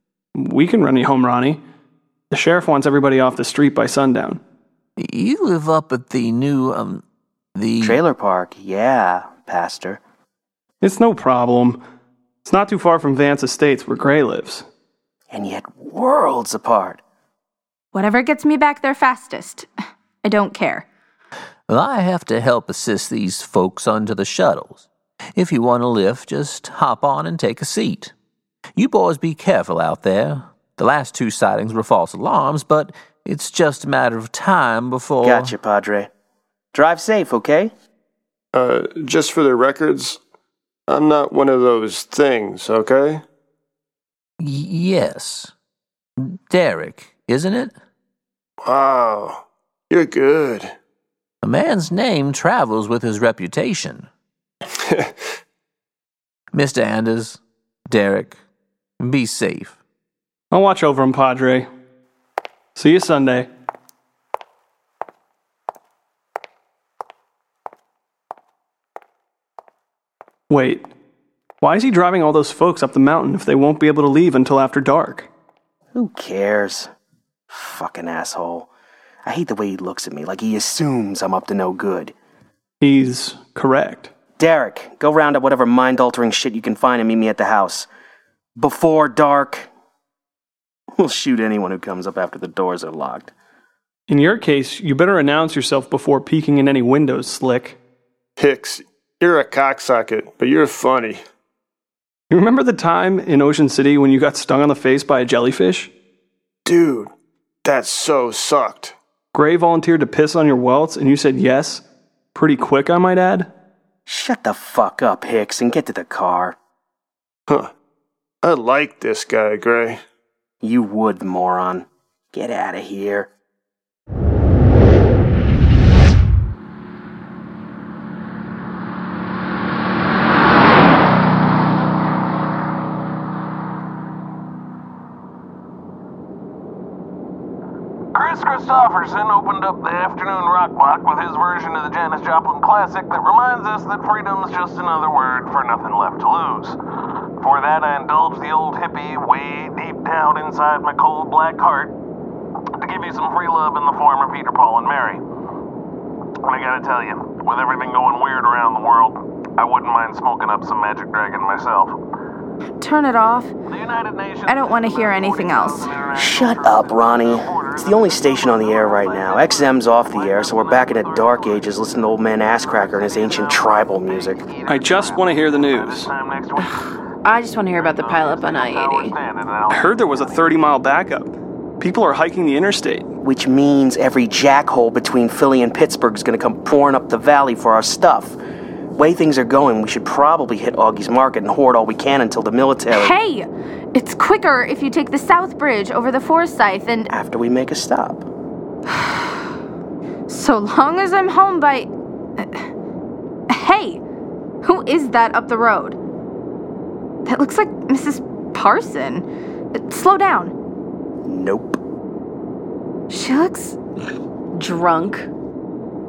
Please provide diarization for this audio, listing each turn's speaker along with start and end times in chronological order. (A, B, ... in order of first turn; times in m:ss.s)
0:00.4-0:01.6 A
0:02.3-0:04.4 A
0:05.0-0:07.0 B
0:07.5-0:08.0 B
0:07.8-0:10.0 C
0:10.8-0:11.8 A
0:12.4-0:14.6 A
0:15.3-0:17.0 C
0:17.9-0:19.7 D
0:20.2-0:20.9 D
0:21.7-0:28.1 B
0:28.8-0:35.5 B
0:35.2-0:36.1 C
0:36.7-0:37.7 C
0:38.5-0:40.2 E
0:40.9-0:43.2 E
0:44.4-0:45.5 B
0:46.2-0:47.7 B
0:48.6-0:50.7 E
0:51.4-0:54.1 B
0:54.8-0:55.1 E
0:56.5-0:58.4 B
0:59.0-0:59.8 B
1:00.5-1:01.7 A
1:02.8-1:03.5 A
1:10.5-1:10.9 A
1:11.6-1:15.3 A
1:15.9-1:16.9 C
1:17.5-1:18.7 C
1:19.2-1:22.1 C
1:22.8-1:24.1 A
1:24.4-1:27.9 C
1:28.6-1:29.7 C
1:31.0-1:33.3 C
1:34.1-1:37.8 A
1:38.4-1:41.2 E
1:42.3-1:45.9 A
1:46.6-1:47.1 E
1:47.6-1:48.9 E
1:49.3-1:51.8 A
1:52.3-1:53.5 A
1:54.0-1:56.6 C
1:58.4-2:00.0 E
2:00.6-2:03.3 C
2:18.1-2:26.8 F
2:27.4-2:31.9 F
2:32.8-2:35.2 F
2:36.4-2:41.9 F
2:42.8-2:43.5 D
2:43.7-2:56.8 F
2:44.4-2:45.9 D
2:46.1-2:54.5 C
2:54.7-2:56.1 A
2:56.6-2:59.2 G
2:57.7-3:00.2 F
2:59.7-3:03.1 A
3:03.2-3:08.4 C
3:09.0-3:13.1 C
3:12.9-3:17.1 D
3:17.1-3:18.2 C
3:18.9-3:19.4 D
3:20.3-3:22.6 D
3:23.5-3:24.0 D
3:24.6-3:26.0 D
3:27.2-3:30.5 D
3:31.2-3:31.8 C
3:33.1-3:33.8 D
3:34.5-3:35.3 G